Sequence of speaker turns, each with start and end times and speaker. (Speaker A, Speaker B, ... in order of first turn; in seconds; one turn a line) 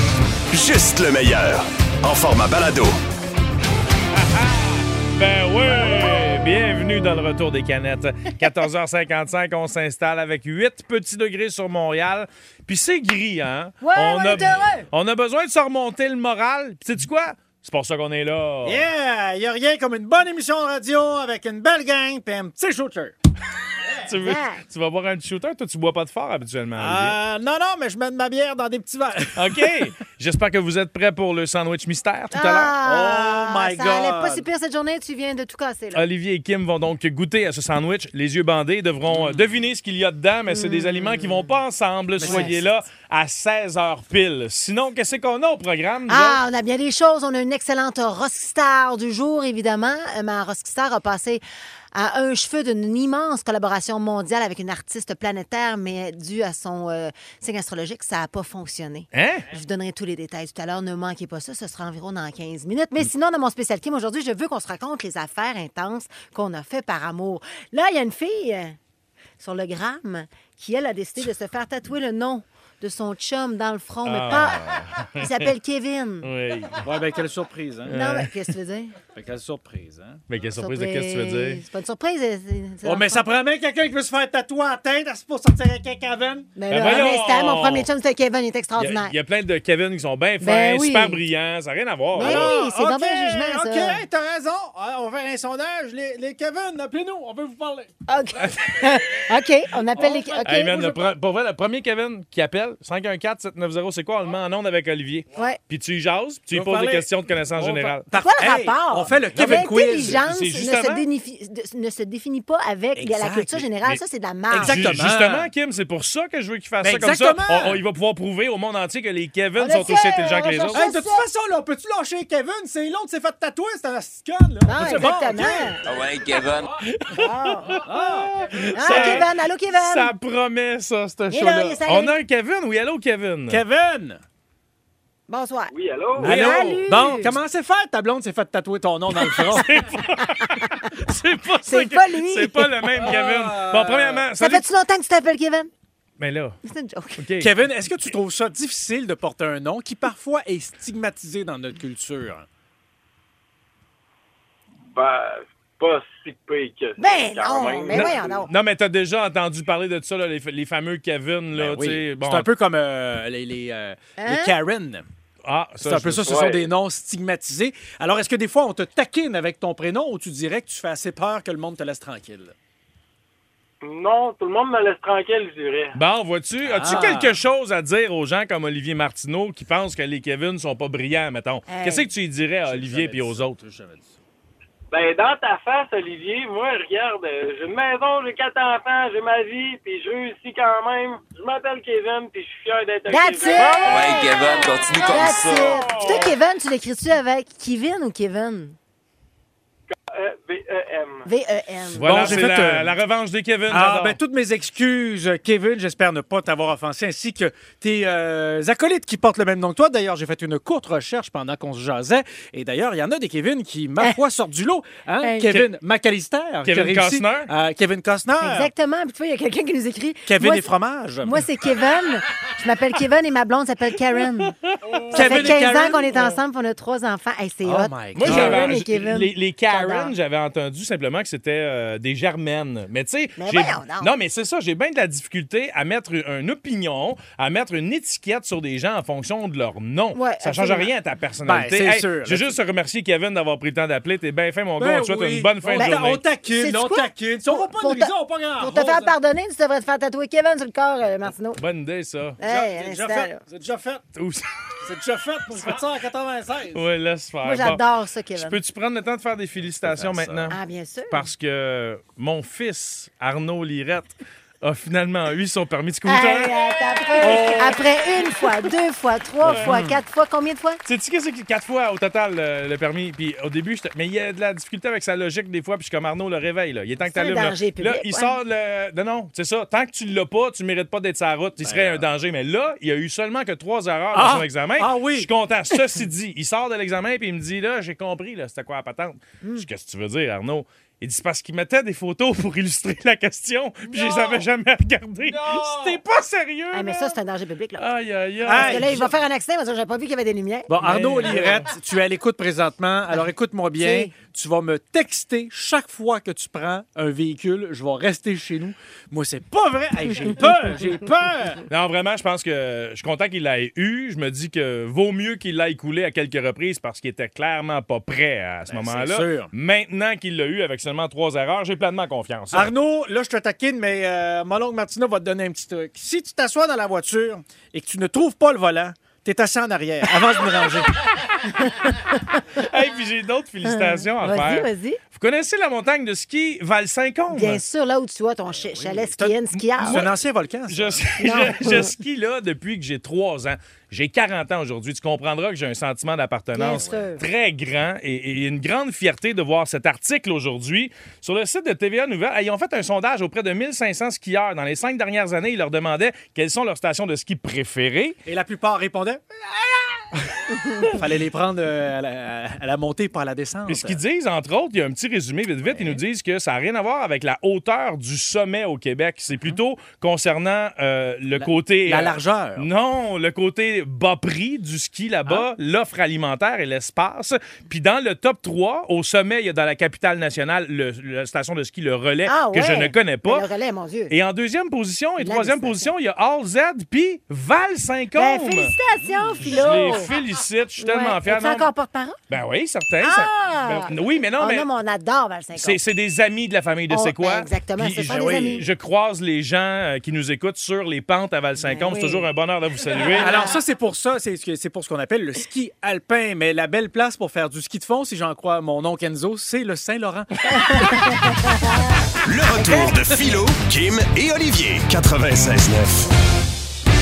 Speaker A: 0.5-3.0
Speaker B: 4.1-18.9
Speaker C: 13.8-14.9
Speaker D: 18.6-23.1
Speaker B: 24.1-27.1
Speaker C: 24.2-24.6
Speaker D: 26.8-29.9
Speaker B: 29.4-32.8
Speaker C: 32.3-36.0
Speaker D: 32.8-34.5
Speaker B: 35.9-46.4
Speaker D: 39.1-39.5
Speaker C: 40.5-41.5
Speaker D: 42.2-42.7
Speaker C: 42.2-42.5
Speaker C: 46.1-51.4
Speaker C: 51.9-68.8
Speaker B: 59.1-59.5
Speaker C: 69.4-74.6
Speaker B: 74.0-75.5
Speaker C: 75.2-76.3
Speaker B: 76.2-76.8
Speaker D: 76.8-78.0
Speaker B: 77.9-78.3
Speaker C: 77.9-78.9
Speaker D: 79.1-80.2
Speaker B: 80.3-81.6
Speaker C: 80.6-83.2
Speaker D: 82.8-86.5
Speaker C: 86.6-89.1
Speaker B: 86.7-87.9
Speaker B: 88.8-92.5
Speaker C: 90.4-91.2
Speaker C: 92.2-94.0
Speaker D: 92.2-97.9
Speaker C: 98.1-101.0
Speaker B: 98.4-99.2
Speaker D: 99.9-101.1
Speaker B: 100.4-108.0
Speaker D: 106.5-110.2
Speaker C: 108.2-114.9
Speaker B: 109.3-111.0
Speaker D: 113.0-113.7
Speaker D: 114.5-115.5
Speaker B: 114.5-120.9
Speaker D: 116.8-117.8
Speaker C: 119.6-121.3
Speaker D: 120.7-125.9
Speaker C: 124.7-125.8
Speaker E: 125.8-126.7
Speaker B: 126.8-127.9
Speaker C: 127.1-127.8
Speaker D: 127.7-129.3
Speaker B: 128.5-133.6
Speaker C: 128.7-130.1
Speaker C: 131.3-132.2
Speaker D: 133.5-134.2
Speaker C: 135.3-137.3
Speaker F: 135.7-136.3
Speaker D: 136.2-139.8
Speaker B: 136.3-136.8
Speaker B: 139.5-144.7
Speaker C: 140.4-140.9
Speaker C: 141.7-143.0
Speaker D: 143.0-144.2
Speaker C: 144.4-145.7
Speaker B: 146.2-146.6
Speaker C: 146.6-147.2
Speaker B: 147.2-147.5
Speaker D: 147.4-152.5
Speaker F: 154.9-158.5
Speaker C: 157.0-158.5
Speaker B: 157.9-162.5
Speaker D: 161.5-165.1
Speaker C: 164.2-164.5
Speaker B: 165.5-166.3
Speaker D: 165.8-172.6
Speaker F: 166.2-166.6
Speaker F: 173.8-176.0
Speaker B: 175.9-183.6
Speaker D: 176.6-177.4
Speaker C: 181.7-182.1
Speaker D: 182.7-184.2
Speaker F: 184.9-195.3
Speaker C: 193.1-198.8
Speaker E: 193.8-195.8
Speaker B: 195.4-196.3
Speaker F: 195.8-196.3
Speaker F: 199.9-201.3
Speaker C: 201.3-202.5
Speaker B: 201.9-204.2
Speaker D: 202.0-203.0
Speaker D: 203.7-218.7
Speaker C: 215.2-215.5
Speaker B: 216.7-217.5
Speaker C: 218.4-220.7
Speaker D: 220.2-221.5
Speaker C: 221.2-224.6
Speaker B: 224.9-225.6
Speaker D: 225.1-226.2
Speaker C: 225.1-230.1
Speaker D: 227.7-228.8
Speaker B: 228.2-246.2
Speaker C: 233.4-234.1
Speaker C: 240.2-240.9
Speaker D: 241.4-242.6
Speaker D: 244.8-249.1
Speaker C: 245.8-251.6
Speaker B: 251.6-252.4
Speaker C: 252.4-253.4
Speaker D: 252.4-254.1
Speaker B: 254.2-254.7
Speaker D: 254.8-256.8
Speaker B: 256.7-257.8
Speaker C: 257.4-258.6
Speaker B: 258.4-260.6
Speaker D: 259.8-260.6
Speaker C: 260.5-261.2
Speaker B: 261.1-266.5
Speaker C: 266.1-270.8
Speaker B: 267.2-267.8
Speaker D: 267.2-267.7
Speaker B: 269.4-269.8
Speaker D: 269.5-270.0
Speaker B: 270.9-297.2
Speaker C: 277.1-278.4
Speaker D: 281.6-282.1
Speaker D: 284.1-285.3
Speaker D: 294.0-294.2
Speaker D: 295.3-296.0
Speaker C: 296.7-297.9
Speaker B: 297.8-299.0
Speaker D: 298.4-299.1
Speaker C: 298.4-300.7
Speaker D: 300.7-311.6
Speaker B: 300.8-301.7
Speaker C: 303.8-304.1
Speaker B: 311.7-322.7
Speaker D: 318.7-319.5
Speaker D: 322.5-331.0
Speaker C: 331.6-332.4
Speaker B: 332.6-337.6
Speaker C: 333.6-335.0
Speaker C: 337.3-340.1
Speaker D: 338.6-341.1
Speaker B: 339.5-340.1
Speaker B: 340.7-358.2
Speaker C: 341.2-341.9
Speaker C: 346.6-347.2
Speaker D: 346.7-347.1
Speaker D: 358.3-364.0
Speaker B: 363.7-383.4
Speaker D: 365.6-366.0
Speaker D: 371.4-372.7
Speaker C: 382.3-384.1
Speaker B: 384.1-388.7
Speaker C: 385.2-385.9
Speaker C: 388.2-390.1
Speaker D: 389.0-389.7
Speaker B: 389.4-391.7
Speaker C: 390.8-392.2
Speaker B: 392.3-394.7
Speaker C: 393.0-395.8
Speaker B: 395.6-403.4
Speaker C: 396.9-398.6
Speaker C: 401.6-402.3
Speaker C: 403.1-403.6
Speaker D: 403.1-411.1
Speaker C: 410.7-411.8
Speaker A: 412.3-416.1
Speaker D: 412.7-413.0